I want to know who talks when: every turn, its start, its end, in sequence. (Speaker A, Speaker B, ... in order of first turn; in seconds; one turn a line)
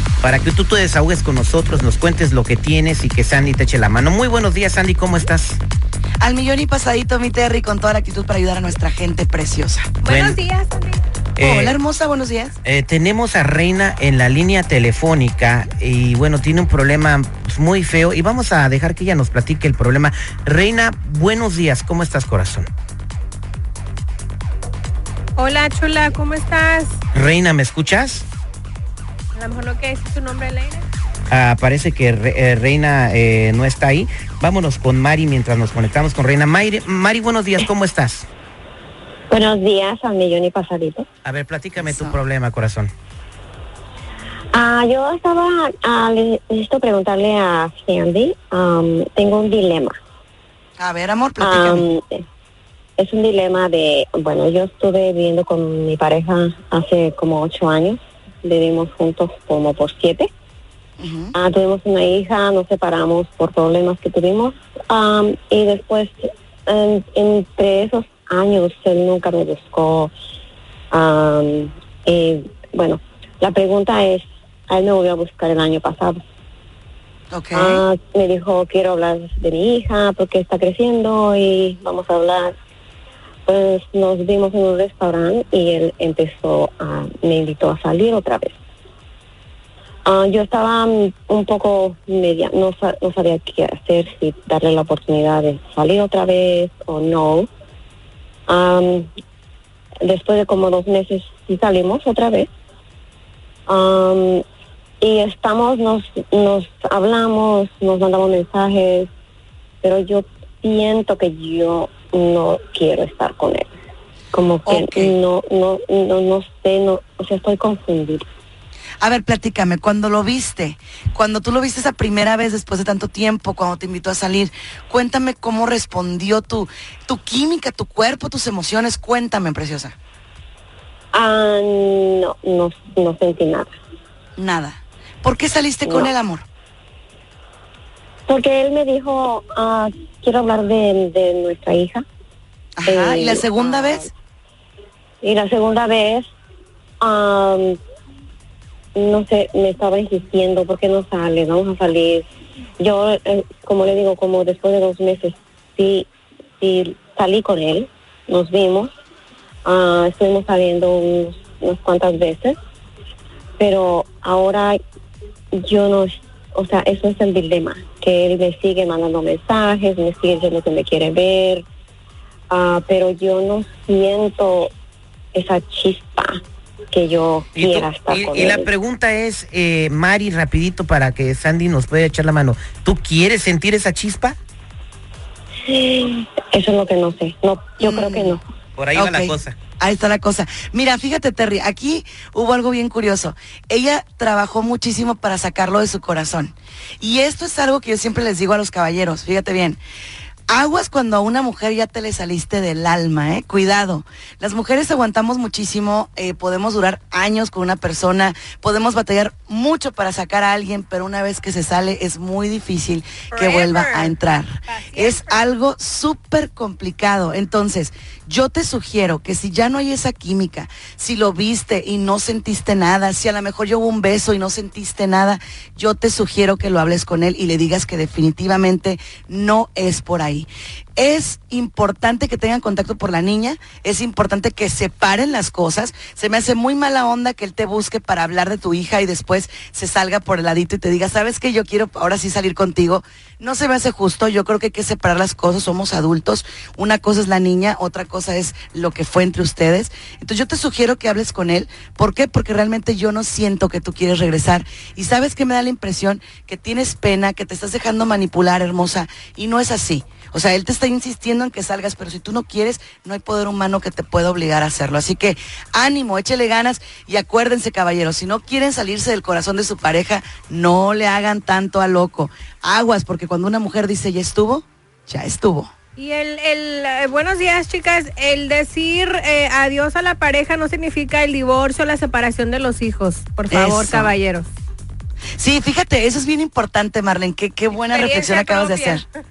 Speaker A: 0.2-5.6
Speaker B: 6.2-9.9
Speaker C: 10.0-11.0
Speaker A: 10.1-10.4
Speaker A: 11.4-11.8
Speaker B: 11.4-12.6
Speaker A: 12.6-22.6
Speaker C: 25.4-26.9
Speaker A: 27.1-28.2
Speaker C: 29.4-30.8
Speaker A: 31.3-38.3
Speaker D: 39.3-41.0
Speaker A: 41.2-42.9
Speaker B: 41.8-42.2
Speaker D: 44.5-50.0
Speaker B: 50.8-51.9
Speaker D: 51.4-52.2
Speaker D: 53.0-60.3
Speaker B: 61.0-61.3
Speaker D: 61.3-70.1
Speaker D: 70.9-76.2
Speaker B: 77.3-77.8
Speaker D: 77.5-82.5
Speaker D: 83.5-88.6
Speaker D: 90.0-97.5
Speaker D: 98.5-99.1
Speaker D: 100.0-102.5
Speaker D: 103.7-104.4
Speaker D: 105.0-109.1
Speaker D: 109.8-113.7
Speaker D: 114.3-118.2
Speaker B: 114.7-115.1
Speaker B: 119.0-129.9
Speaker D: 131.1-133.7
Speaker B: 134.4-136.4
Speaker D: 135.8-136.1
Speaker D: 138.3-142.0
Speaker B: 142.8-144.1
Speaker D: 142.8-144.1
Speaker D: 145.2-146.3
Speaker D: 147.0-147.8
Speaker D: 148.9-152.3
Speaker D: 152.8-156.1
Speaker D: 156.6-158.9
Speaker D: 159.6-162.6
Speaker D: 163.6-164.8
Speaker D: 165.6-171.6
Speaker D: 172.5-174.7
Speaker D: 175.3-178.7
Speaker A: 177.6-184.4
Speaker D: 185.7-188.4
Speaker B: 187.8-188.4
Speaker A: 188.8-189.6
Speaker B: 188.9-199.8
Speaker B: 200.5-275.7
Speaker C: 213.3-214.1
Speaker C: 214.7-215.4
Speaker C: 276.0-284.5
Speaker B: 283.5-284.1
Speaker B: 285.4-289.0
Speaker C: 287.8-289.0